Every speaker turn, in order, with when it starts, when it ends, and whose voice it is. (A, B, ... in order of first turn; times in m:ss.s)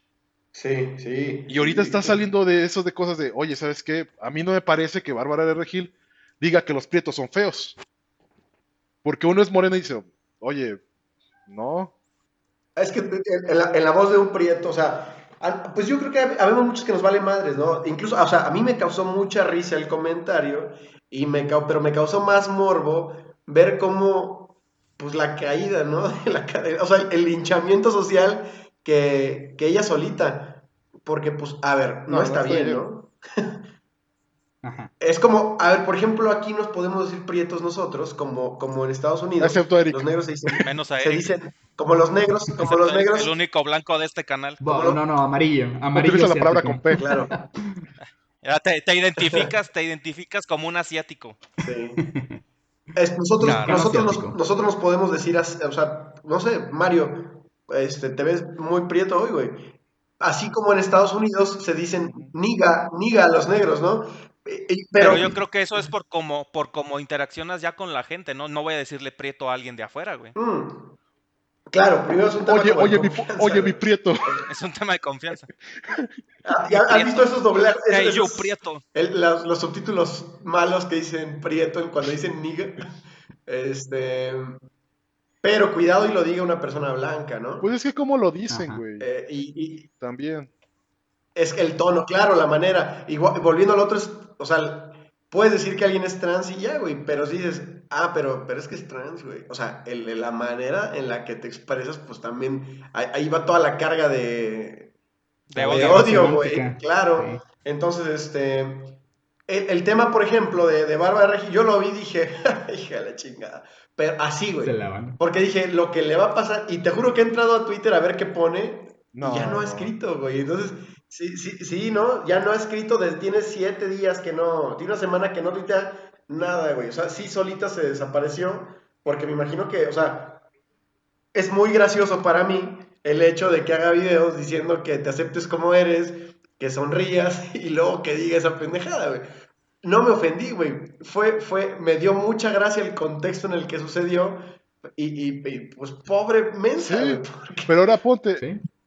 0:00.5-0:02.2 A
0:01.5-0:07.8 B
0:09.0-0:10.8 B
0:11.5-0:11.9 B
0:12.8-0:33.6 A
0:32.1-0:32.8 B
0:34.6-0:34.9 C
0:35.0-0:43.3 A
0:39.4-0:40.1 B
0:40.5-0:41.3 D
0:42.6-0:44.6 D
0:44.6-0:47.9 C
0:44.6-0:45.0 A
0:45.9-0:47.0 B
0:46.9-0:47.4 A
0:48.4-0:51.4 D
0:49.2-0:49.5 A
0:51.6-0:52.0 A
0:52.0-0:52.4 C
0:52.9-1:05.3 A
0:53.4-0:54.4 C
0:53.4-0:54.0 D
1:05.0-1:10.3 D
1:10.4-1:10.9 A
1:11.7-1:14.4 A
1:12.5-1:14.4 B
1:14.5-1:15.5 D
1:16.4-1:22.9 A
1:16.6-1:17.3 D
1:17.9-1:18.8 D
1:23.4-1:24.6 A
1:25.4-1:27.7 A
1:27.6-1:29.1 B
1:28.5-1:28.8 C
1:29.0-1:29.9 A
1:30.0-1:30.5 B
1:31.3-1:44.9 A
1:45.5-1:46.2 D
1:45.5-1:47.4 C
1:45.6-2:10.4 A
1:54.6-1:55.2 C
1:59.1-1:59.9 B
2:11.3-2:19.2 A
2:19.8-2:24.4 A
2:25.0-2:27.8 A
2:26.8-2:28.4 B